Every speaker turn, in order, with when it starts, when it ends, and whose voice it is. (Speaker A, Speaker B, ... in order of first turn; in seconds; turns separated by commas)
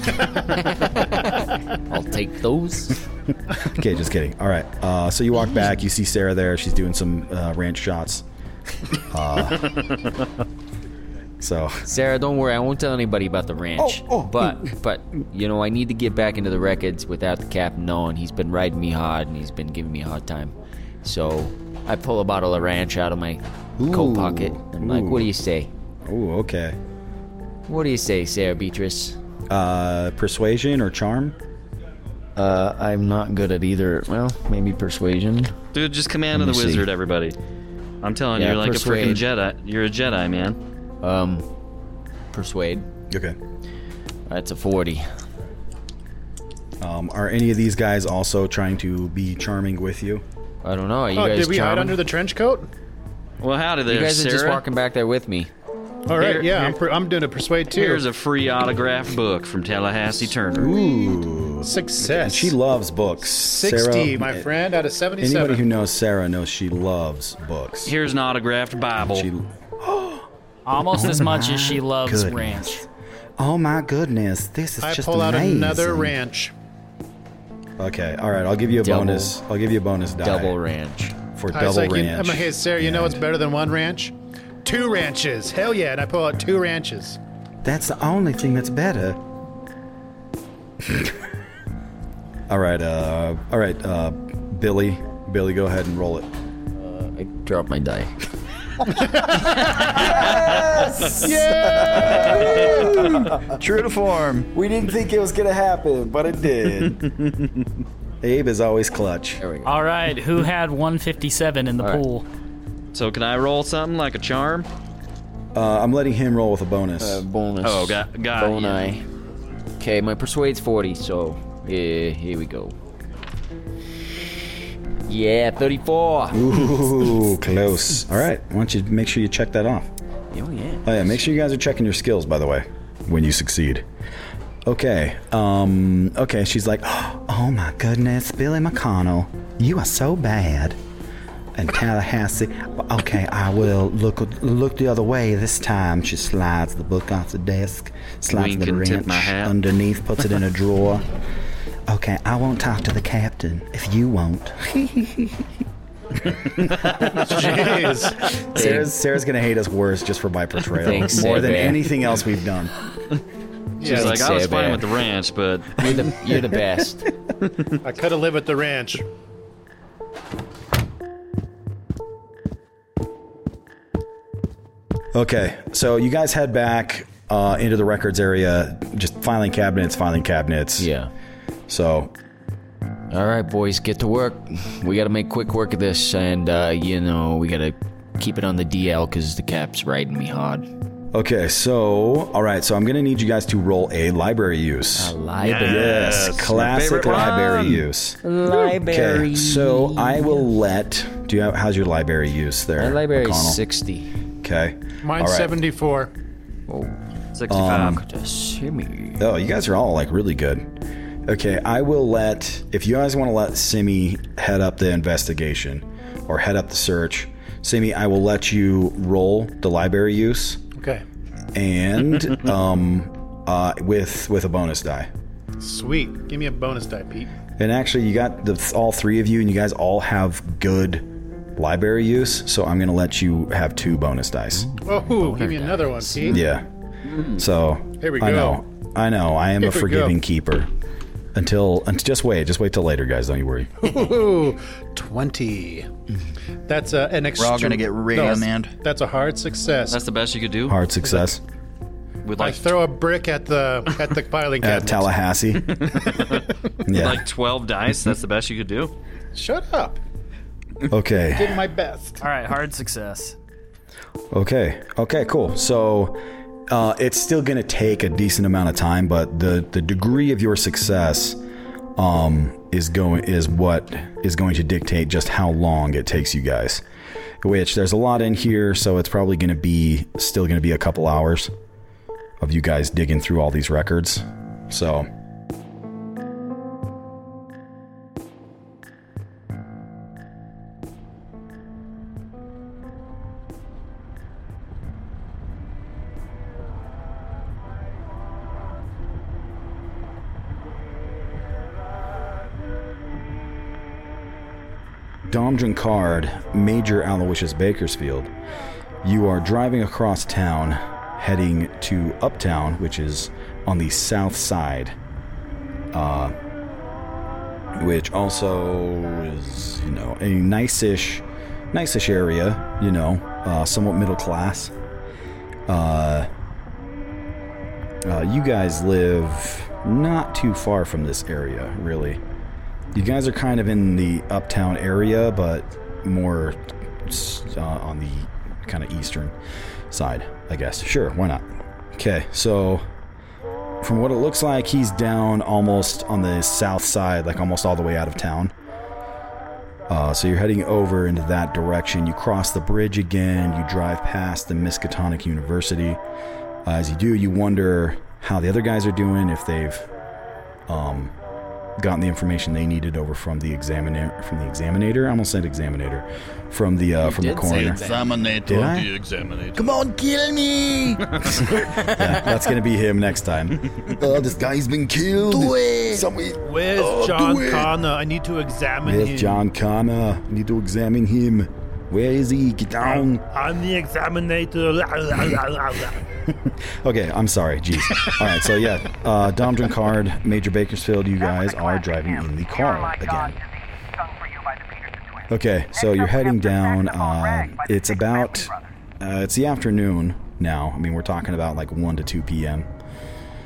Speaker A: 0.7-3.0, Speaker B: 3.6-8.2, Speaker B: 9.1-9.7, Speaker B: 11.4-11.8, Speaker A: 11.8-25.7, Speaker B: 13.8-14.6, Speaker B: 23.8-25.3, Speaker B: 26.0-26.8, Speaker A: 27.7-29.2, Speaker B: 29.5-31.4, Speaker A: 32.4-35.5, Speaker C: 35.7-37.4, Speaker A: 36.3-36.9, Speaker C: 38.0-40.6, Speaker A: 38.4-39.2, Speaker A: 41.0-41.5, Speaker A: 42.3-42.9, Speaker B: 43.1-43.4, Speaker A: 44.3-45.1, Speaker B: 46.8-50.2, Speaker A: 50.6-52.0, Speaker D: 51.1-52.7, Speaker C: 53.4-54.6, Speaker A: 53.9-55.5, Speaker D: 56.1-58.0, Speaker C: 56.1-56.8, Speaker C: 57.7-60.7, Speaker B: 60.5-64.5, Speaker D: 61.6-62.5, Speaker D: 63.3-65.7, Speaker B: 65.2-67.9, Speaker C: 67.8-69.3, Speaker B: 69.0-70.3, Speaker E: 70.7-72.8, Speaker B: 70.8-72.8, Speaker B: 73.4-76.2, Speaker D: 74.8-76.5, Speaker B: 77.8-80.5, Speaker A: 78.8-79.4, Speaker A: 80.2-81.1, Speaker B: 81.3-83.2, Speaker D: 81.5-87.2, Speaker B: 87.6-89.2, Speaker B: 90.8-91.2, Speaker B: 92.5-96.3, Speaker A: 96.8-98.1, Speaker B: 99.8-103.5, Speaker D: 101.1-102.7, Speaker F: 103.5-104.5, Speaker B: 104.5-107.0, Speaker B: 108.2-109.4, Speaker A: 109.4-109.8, Speaker E: 109.6-112.3, Speaker A: 111.8-112.0, Speaker C: 112.9-114.7, Speaker B: 115.5-117.2, Speaker A: 117.0-119.0, Speaker C: 117.6-118.9, Speaker A: 119.8-122.8, Speaker A: 125.1-126.6, Speaker B: 126.3-129.9, Speaker A: 130.3-131.1, Speaker B: 130.8-133.8, Speaker B: 134.7-140.8, Speaker B: 141.5-151.1, Speaker C: 148.3-149.5, Speaker B: 151.9-155.5, Speaker B: 156.2-157.6, Speaker D: 157.2-158.3, Speaker B: 158.4-162.7, Speaker A: 158.5-158.9, Speaker A: 160.8-161.9, Speaker D: 163.8-164.2, Speaker A: 163.8-164.8, Speaker C: 163.8-165.9, Speaker A: 165.8-167.1, Speaker D: 167.8-169.0, Speaker B: 175.1-180.9, Speaker A: 180.8-181.1, Speaker B: 181.7-182.1, Speaker A: 183.1-190.7, Speaker B: 191.1-203.6, Speaker A: 194.9-196.2, Speaker G: 195.5-196.2, Speaker C: 196.1-197.8, Speaker A: 198.2-200.5, Speaker A: 202.8-204.1, Speaker B: 204.4-205.6, Speaker D: 205.0-206.1, Speaker A: 206.7-207.0, Speaker C: 207.3-208.0, Speaker B: 207.5-208.0, Speaker A: 207.8-209.2, Speaker B: 209.2-210.7, Speaker B: 211.2-220.6, Speaker D: 220.7-221.0, Speaker B: 221.5-225.1, Speaker D: 225.6-227.3, Speaker B: 227.6-234.7, Speaker A: 234.5-236.5, Speaker D: 234.8-236.4, Speaker B: 236.3-236.7, Speaker B: 237.2-240.7, Speaker D: 238.0-238.6, Speaker D: 239.6-240.2, Speaker B: 241.3-243.8, Speaker D: 243.8-245.9, Speaker D: 246.7-250.0, Speaker F: 247.3-248.7, Speaker C: 249.9-250.8, Speaker B: 250.7-251.4, Speaker C: 252.2-252.8, Speaker D: 252.4-255.1, Speaker B: 254.6-255.9, Speaker C: 255.8-256.4, Speaker B: 256.9-257.2, Speaker C: 256.9-258.9, Speaker D: 259.3-260.0, Speaker B: 260.9-261.6, Speaker D: 261.3-262.2, Speaker E: 262.2-263.4, Speaker B: 264.3-271.4, Speaker B: 271.9-276.8, Speaker B: 277.4-281.5, Speaker B: 282.4-285.1, Speaker B: 305.3-308.3, Speaker B: 309.0-314.9, Speaker B: 315.9-316.3, Speaker B: 317.7-324.7, Speaker B: 325.7-326.3, Speaker B: 328.0-332.2, Speaker B: 332.9-339.4, Speaker B: 339.9-342.9, Speaker B: 343.8-348.5, Speaker B: 349.9-356.0, Speaker B: 356.6-359.9, Speaker B: 360.7-361.1, Speaker B: 361.8-367.8, Speaker A: 367.0-368.1, Speaker F: 367.5-368.7, Speaker B: 368.4-368.9, Speaker G: 368.5-369.8, Speaker F: 369.6-371.0, Speaker B: 371.2-377.7, Speaker F: 375.3-376.0, Speaker D: 376.4-379.5, Speaker B: 378.8-383.2, Speaker D: 382.9-386.0, Speaker B: 386.8-393.4, Speaker D: 387.9-388.3, Speaker B: 395.3-402.7